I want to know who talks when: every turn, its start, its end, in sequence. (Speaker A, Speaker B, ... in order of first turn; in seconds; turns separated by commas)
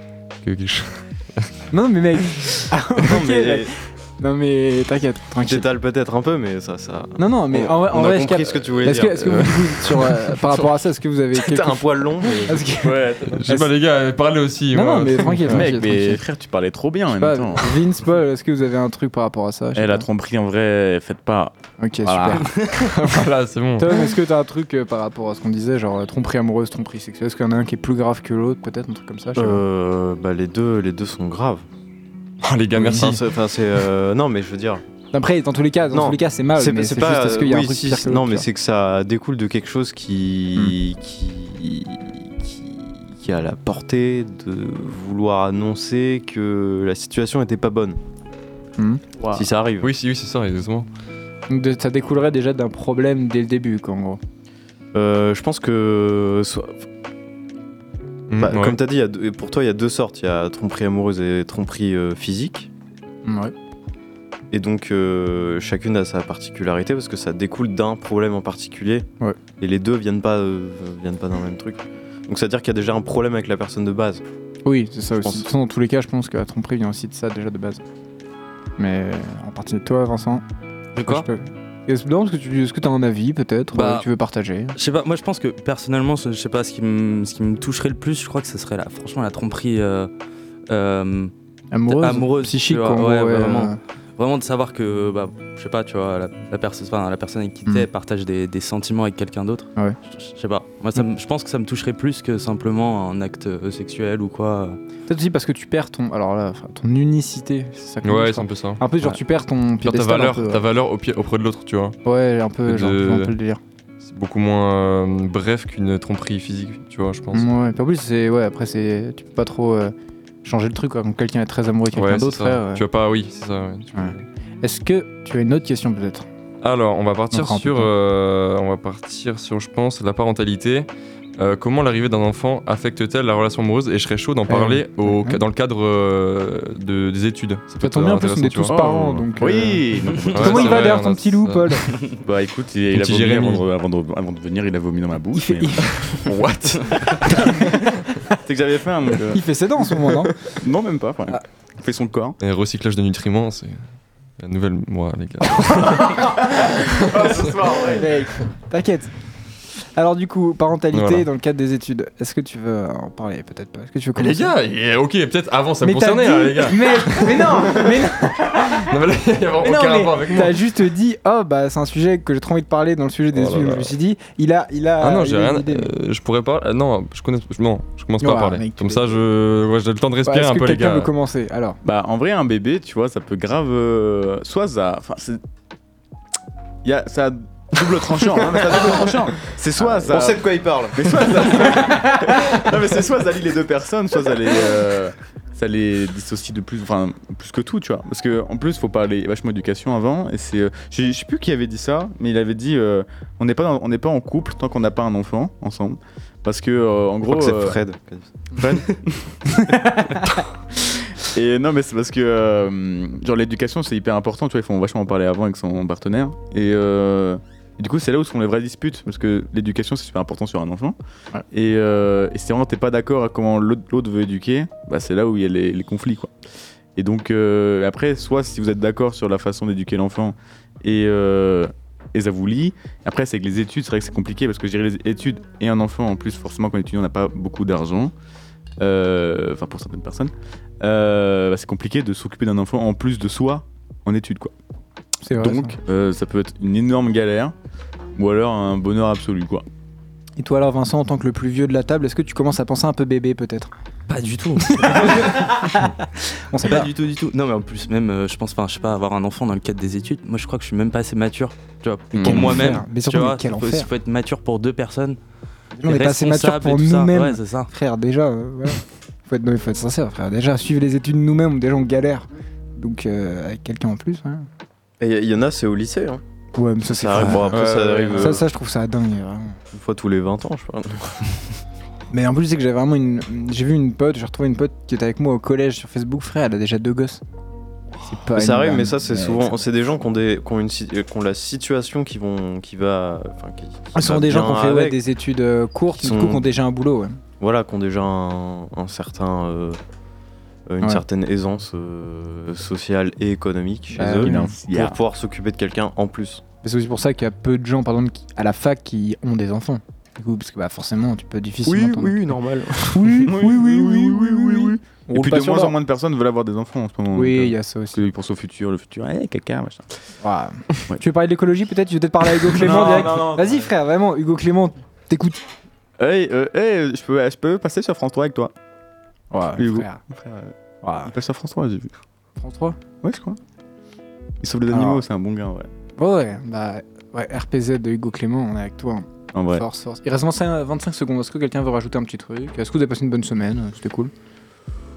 Speaker A: 0.4-1.5, Speaker B: 1.7-5.7, Speaker C: 3.0-3.8, Speaker C: 5.4-9.5, Speaker B: 7.2-13.7, Speaker A: 9.2-10.1, Speaker C: 11.4-12.7, Speaker D: 12.7-13.7, Speaker A: 13.3-15.7, Speaker B: 14.7-16.2, Speaker D: 15.3-17.8, Speaker B: 17.1-20.1, Speaker D: 19.8-22.5, Speaker B: 21.8-22.5, Speaker A: 22.6-24.0, Speaker B: 23.8-29.6, Speaker C: 29.4-31.6, Speaker A: 32.4-33.3, Speaker B: 32.8-33.1, Speaker C: 32.9-34.8, Speaker B: 35.1-38.5, Speaker C: 35.9-48.0, Speaker D: 49.2-49.5, Speaker C: 49.3-49.9, Speaker A: 49.8-50.9, Speaker B: 51.5-54.2, Speaker C: 54.9-56.9, Speaker A: 58.3-58.8, Speaker C: 58.4-62.7, Speaker B: 63.2-63.5, Speaker C: 64.5-69.1, Speaker C: 69.6-74.2, Speaker B: 74.7-77.8, Speaker C: 75.1-75.5, Speaker B: 78.8-80.4, Speaker E: 81.0-81.3, Speaker B: 81.0-84.8, Speaker E: 83.7-84.1, Speaker E: 84.8-90.1, Speaker E: 90.7-91.3, Speaker B: 91.7-93.8, Speaker E: 91.9-104.8, Speaker B: 105.1-110.6, Speaker A: 108.0-109.2, Speaker A: 109.8-112.0, Speaker B: 112.0-113.6, Speaker A: 112.7-113.3, Speaker A: 114.0-117.5, Speaker B: 117.3-122.8, Speaker A: 121.9-124.2, Speaker B: 123.9-126.3, Speaker A: 126.6-138.7, Speaker B: 127.3-127.9, Speaker B: 134.5-135.4, Speaker B: 137.8-139.8, Speaker D: 138.7-140.9, Speaker A: 140.3-142.0, Speaker B: 140.4-141.9, Speaker D: 142.2-147.8, Speaker A: 142.9-143.7, Speaker B: 145.3-146.3, Speaker B: 147.3-148.4, Speaker D: 148.3-152.4, Speaker B: 149.3-150.6, Speaker A: 152.4-153.8, Speaker A: 154.4-157.5, Speaker D: 157.0-158.1, Speaker B: 157.6-159.1, Speaker B: 159.9-164.5, Speaker A: 160.9-161.3, Speaker A: 164.2-170.6, Speaker B: 165.8-168.9, Speaker B: 169.6-175.9, Speaker A: 173.3-173.9, Speaker A: 175.0-181.1, Speaker B: 178.2-179.2, Speaker B: 180.3-181.8, Speaker D: 181.8-185.4, Speaker D: 186.8-207.8, Speaker C: 188.7-192.1, Speaker C: 207.2-208.3, Speaker D: 208.6-210.0, Speaker B: 209.6-210.2, Speaker D: 211.2-221.0, Speaker D: 221.5-226.3, Speaker D: 227.0-238.1, Speaker D: 238.8-244.5, Speaker B: 245.2-245.8, Speaker D: 245.4-247.5, Speaker D: 248.2-249.7, Speaker B: 250.4-253.7, Speaker E: 254.1-255.8, Speaker B: 254.7-256.9, Speaker E: 256.6-265.2, Speaker D: 262.1-262.6, Speaker B: 262.2-263.9, Speaker B: 265.8-274.5, Speaker E: 265.8-267.7, Speaker C: 275.0-276.2, Speaker B: 276.6-279.6, Speaker C: 276.9-278.4, Speaker D: 277.5-278.4, Speaker C: 279.7-281.2, Speaker B: 282.1-287.2, Speaker B: 288.1-289.5, Speaker C: 288.3-295.0, Speaker B: 293.9-297.2, Speaker C: 296.0-296.5, Speaker C: 297.4-299.8, Speaker C: 300.7-306.4, Speaker B: 304.0-304.6, Speaker D: 304.2-305.0, Speaker B: 306.6-312.2, Speaker C: 311.8-312.6, Speaker D: 312.6-319.9, Speaker B: 312.9-315.8, Speaker B: 317.1-318.0, Speaker B: 320.2-325.4, Speaker D: 322.4-323.6, Speaker D: 326.0-328.5, Speaker B: 329.3-330.0, Speaker D: 329.6-330.5, Speaker B: 330.8-331.1, Speaker D: 331.1-331.9, Speaker B: 332.4-332.8, Speaker D: 333.0-333.4, Speaker D: 334.4-335.7, Speaker B: 334.7-335.0, Speaker B: 336.0-344.1, Speaker D: 339.3-339.6